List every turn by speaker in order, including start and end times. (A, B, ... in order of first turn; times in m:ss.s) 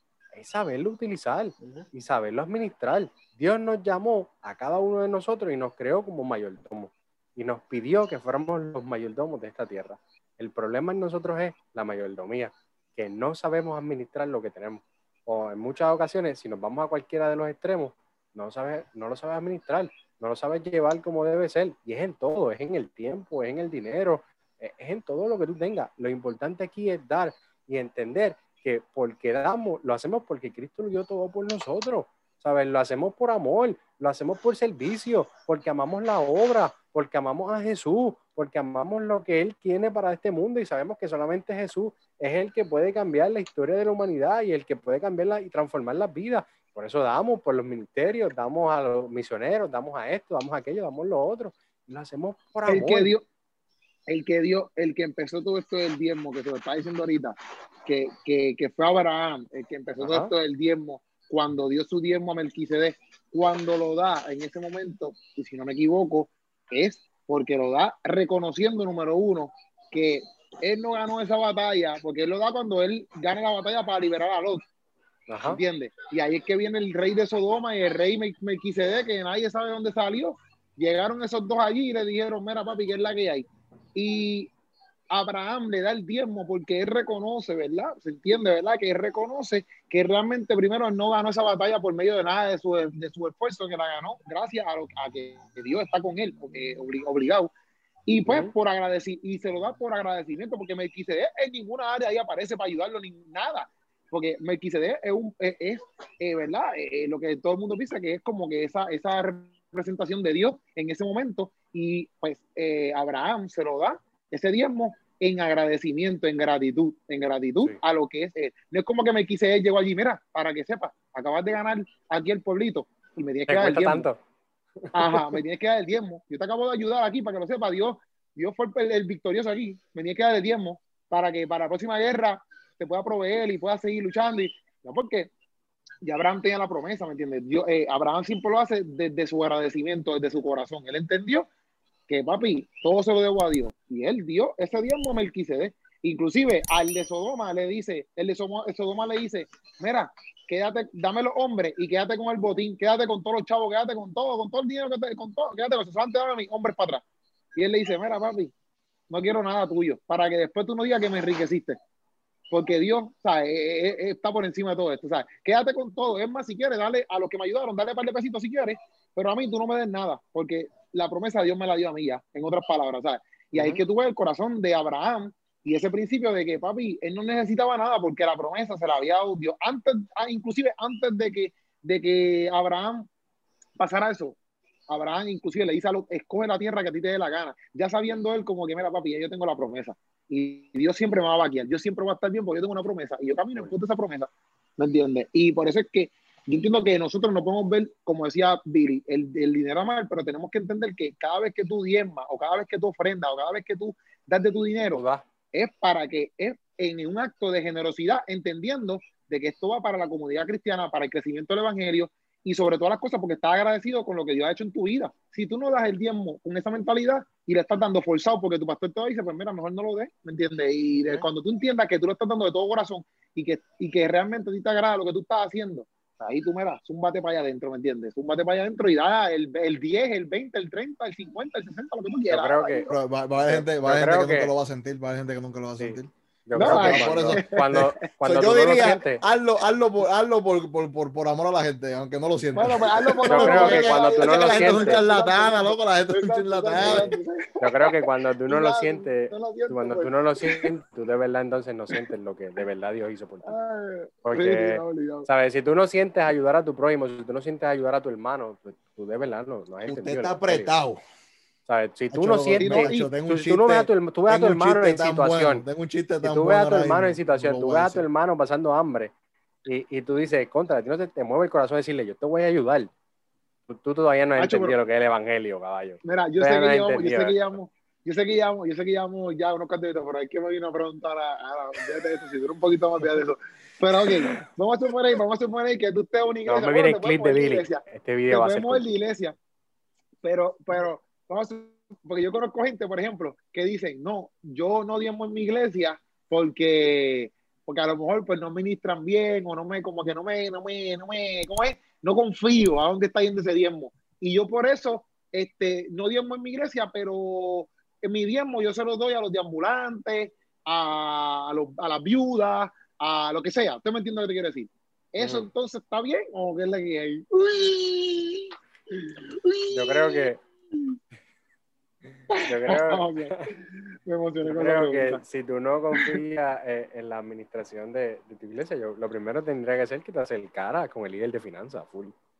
0:00.3-0:53.1 A
0:52.6-0:53.2 B
0:54.1-1:14.7 B
1:00.0-1:00.3 A
1:15.3-1:15.6 A
1:15.5-1:24.5 B
1:25.1-1:37.5 B
1:38.1-2:04.1 B
2:03.5-2:04.2 A
2:04.8-2:05.4 A
2:04.9-2:15.3 B
2:16.0-2:21.5 B
2:22.1-2:37.0 B
2:37.6-2:38.5 B
2:39.1-2:41.8 B
2:42.5-3:03.1 B
2:53.5-2:53.8 A
3:03.8-3:04.4 B
3:04.9-3:25.0 B
3:24.8-3:25.2 A
3:25.5-3:52.9 B
3:52.3-3:52.9 A
3:52.9-4:07.1 C
3:53.5-3:54.5 A
3:55.8-3:59.2 A
3:56.5-3:58.0 B
4:02.5-4:08.0 B
4:03.2-4:05.0 A
4:06.7-4:13.5 A
4:08.5-4:10.7 B
4:13.4-4:15.3 B
4:14.2-4:20.7 A
4:19.8-4:21.0 C
4:21.7-4:25.6 A
4:22.1-4:28.0 C
4:22.6-4:23.1 B
4:26.2-4:29.1 A
4:29.6-4:32.9 A
4:33.7-4:37.6 A
4:34.4-4:34.8 B
4:36.0-4:49.3 B
4:44.1-4:44.4 A
4:46.5-4:49.0 A
4:50.2-5:20.3 B
5:15.2-5:15.5 A
5:19.7-5:20.4 A
5:22.3-5:25.2 B
5:22.4-5:23.5 A
5:24.4-5:32.1 A